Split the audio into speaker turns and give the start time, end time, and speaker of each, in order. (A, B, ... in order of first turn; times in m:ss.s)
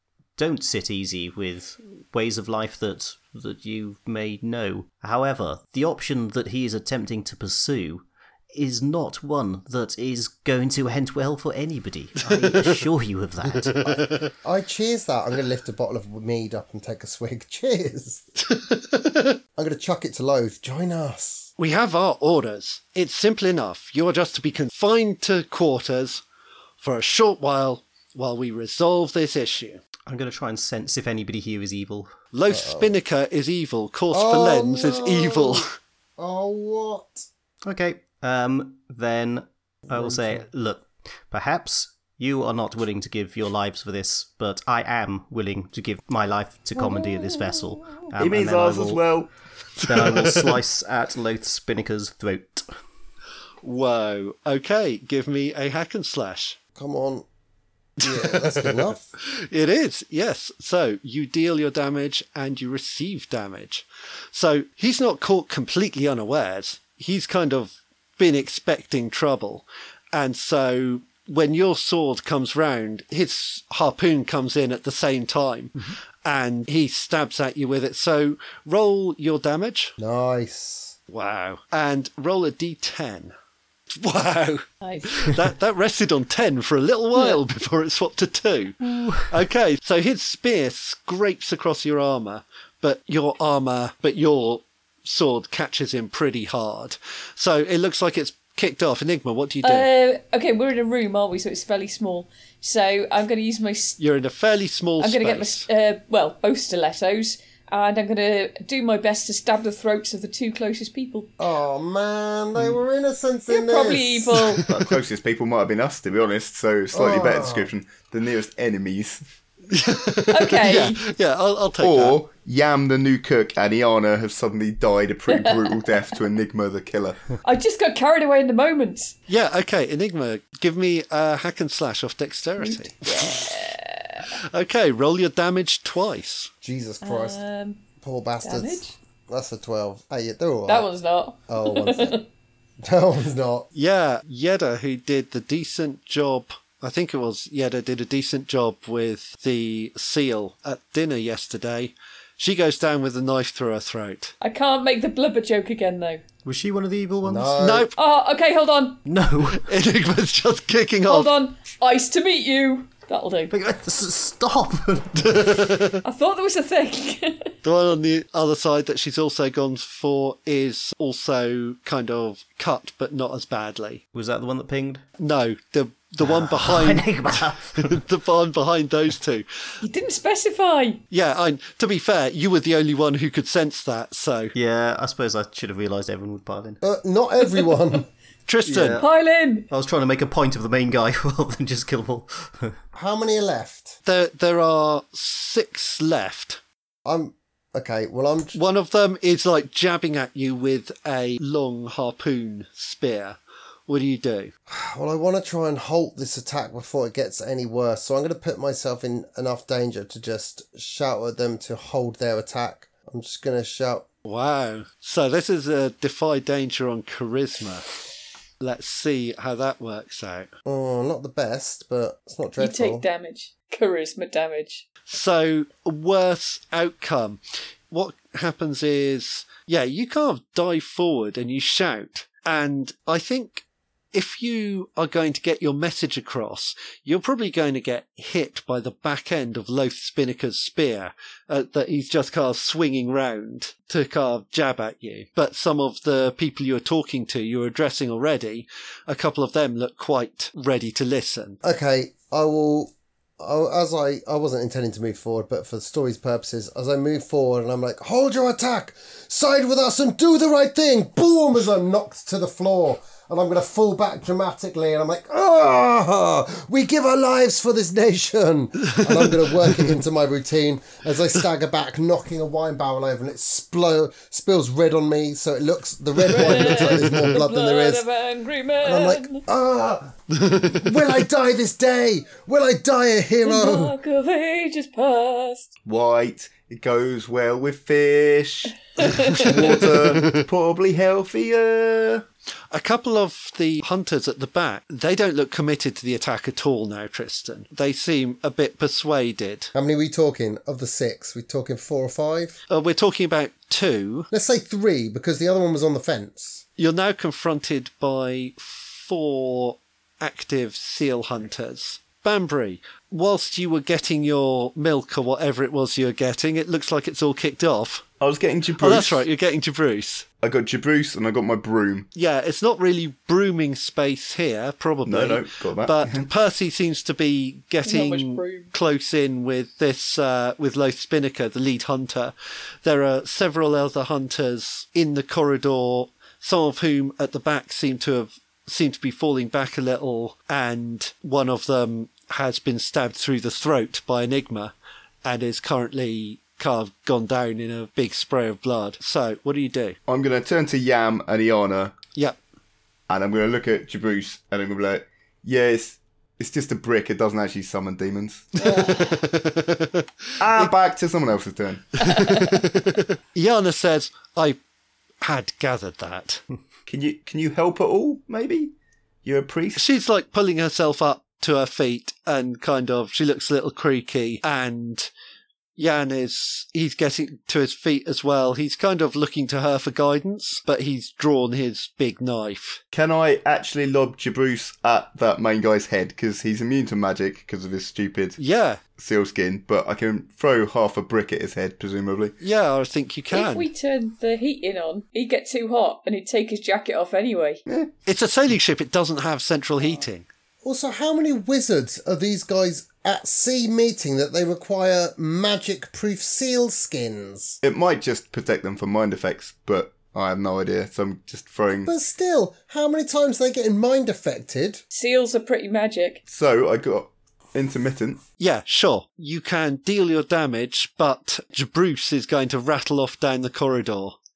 0:00.4-0:14.1 A
0:12.2-0:12.8 B
0:13.7-0:14.3 B
0:14.4-0:18.3 C
0:18.4-0:19.4 B
0:19.6-0:21.5 C
0:21.6-0:26.2 B
0:26.8-0:29.8 B
0:30.0-0:32.1 A
0:32.3-0:35.7 B
0:32.5-0:32.9 C
0:34.1-0:35.6 C
0:36.2-0:37.3 C
0:37.6-0:49.0 A
0:39.9-0:40.4 C
0:48.2-0:49.3 D
0:49.8-0:52.6 A
0:53.6-0:56.6 B
0:56.8-0:57.3 C
0:58.0-0:59.1 C
0:58.0-1:19.9 B
1:20.0-1:21.0 C
1:21.1-1:23.3 B
1:23.9-1:39.9 B
1:24.8-1:25.1 E
1:28.8-1:29.3 A
1:39.6-1:44.0 E
1:44.0-1:45.7 B
1:45.0-1:51.3 E
1:51.4-1:54.6 C
1:53.5-1:54.6 E
1:54.7-1:59.2 D
1:56.9-1:57.7 C
1:59.7-2:02.2 B
2:00.3-2:01.0 E
2:01.8-2:07.3 D
2:05.3-2:05.9 E
2:07.4-2:09.2 E
2:09.3-2:13.7 B
2:12.6-2:14.2 E
2:14.3-2:16.5 B
2:16.6-2:17.4 C
2:17.0-2:17.8 E
2:18.0-2:20.9 C
2:18.4-2:18.9 E
2:20.7-2:22.2 E
2:21.5-2:22.2 C
2:22.8-2:23.7 C
2:23.7-2:34.3 B
2:34.4-2:36.2 E
2:36.4-2:37.6 A
2:37.2-2:37.9 C
2:37.6-2:37.9 B
2:37.9-2:39.0 E
2:39.0-2:39.6 A
2:39.5-2:41.3 B
2:41.1-2:43.5 E
2:43.5-2:45.8 A
2:45.2-2:46.0 B
2:46.0-2:47.6 E
2:47.6-2:54.0 B
2:54.1-2:55.0 A
2:55.2-2:59.4 B
2:56.2-2:58.0 A
2:59.8-3:01.0 E
3:01.1-3:04.5 B
3:04.5-3:06.8 A
3:06.8-3:08.1 C
3:08.5-3:09.0 B
3:08.7-3:09.1 A
3:09.0-3:09.7 E
3:09.7-3:12.8 A
3:12.9-3:14.0 C
3:14.0-3:16.6 B
3:17.0-3:18.6 C
3:18.5-3:24.5 B
3:24.7-3:34.0 C
3:34.2-3:37.9 B
3:38.6-3:40.5 B
3:40.6-3:43.0 C
3:42.6-3:44.8 E
3:45.1-4:11.6 B
4:11.6-4:38.0 C
4:36.3-4:39.4 E
4:36.4-4:37.3 B
4:38.8-4:44.0 C
4:40.3-4:41.1 B
4:43.4-4:45.7 E
4:45.9-4:52.2 D
4:49.0-4:49.8 E
4:49.0-4:50.5 B
4:52.7-4:59.7 B
4:59.7-5:02.6 C
5:02.7-5:04.3 B
5:04.3-5:06.6 C
5:06.8-5:18.0 B
5:18.2-5:19.2 D
5:18.8-5:20.3 B
5:20.4-5:22.1 D
5:22.1-5:32.3 B
5:25.0-5:26.3 D
5:27.8-5:28.7 E
5:32.8-5:44.7 B
5:45.2-5:50.0 B
5:50.1-5:51.9 D
5:53.1-5:58.7 D
5:58.6-5:59.2 E
5:58.6-6:00.7 B
6:00.4-6:02.2 D
6:02.0-6:04.6 B
6:02.1-6:02.6 E
6:05.2-6:06.4 B
6:06.9-6:08.7 D
6:09.2-6:09.8 D
6:09.8-6:15.1 B
6:15.8-6:22.8 B
6:22.9-6:28.4 D
6:28.4-6:28.8 B
6:29.0-6:32.3 D
6:32.4-6:33.7 B
6:33.3-6:37.6 E
6:38.0-6:40.3 B
6:40.6-6:47.6 C
6:47.6-6:51.9 D
6:51.9-6:54.8 C
6:54.9-6:56.2 E
6:56.3-6:58.2 D
6:58.4-7:04.2 B